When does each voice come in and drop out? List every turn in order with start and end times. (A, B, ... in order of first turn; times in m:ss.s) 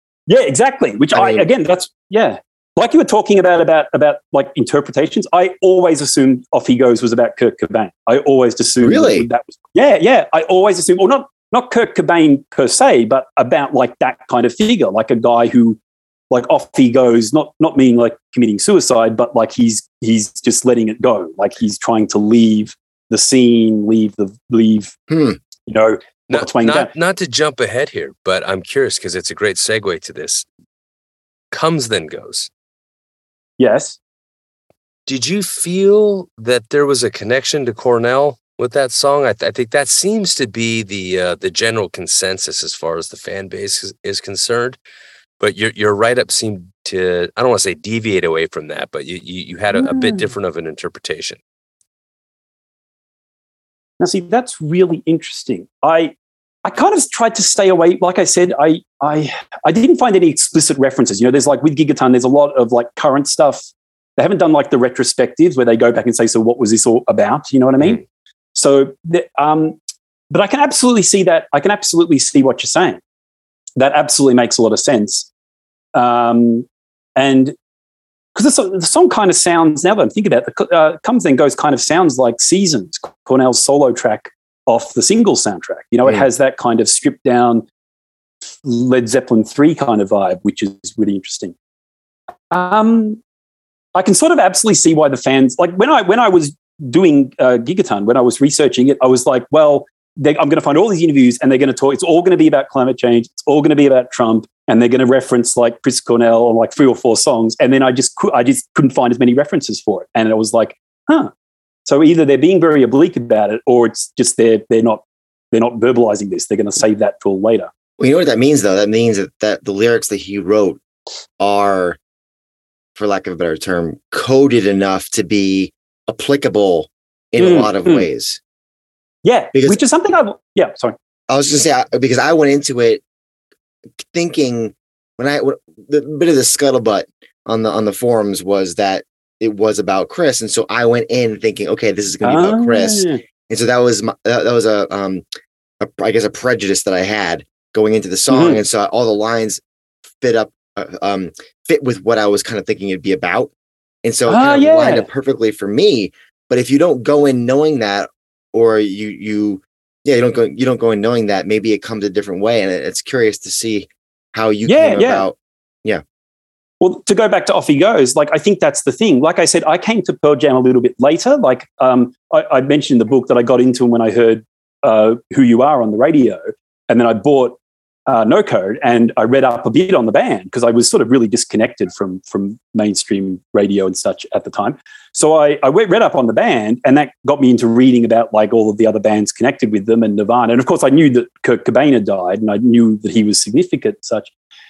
0:00.3-0:15.8 A
0:01.1-0:01.5 B
0:08.8-0:09.3 B
0:16.3-0:25.0 A
0:25.1-0:25.4 B
0:25.7-0:26.9 A
0:26.3-0:30.5 C
0:31.5-0:32.5 C
0:33.6-0:34.0 A
0:35.1-0:44.8 C
0:45.4-0:51.4 C
0:49.7-0:50.3 A
0:54.0-1:08.0 A
1:08.6-1:09.8 A
1:10.3-1:13.0 A
1:13.8-1:15.3 A
1:16.0-1:17.6 A
1:18.4-1:27.7 A
1:28.6-1:31.6 A
1:32.5-1:33.2 A
1:34.0-1:51.3 A
1:51.9-1:57.7 A
1:58.0-2:00.8 B
2:01.4-2:02.0 B
2:03.0-2:08.4 B
2:07.4-2:08.1 A
2:09.2-2:11.0 A
2:09.5-2:09.8 B
2:11.3-2:13.0 B
2:14.1-2:25.2 B
2:22.2-2:23.2 A
2:25.8-2:29.6 B
2:28.3-2:28.6 A
2:30.2-2:33.5 B
2:34.0-2:46.0 B
2:34.3-2:35.1 A
2:44.7-2:45.3 A
2:46.8-3:14.3 A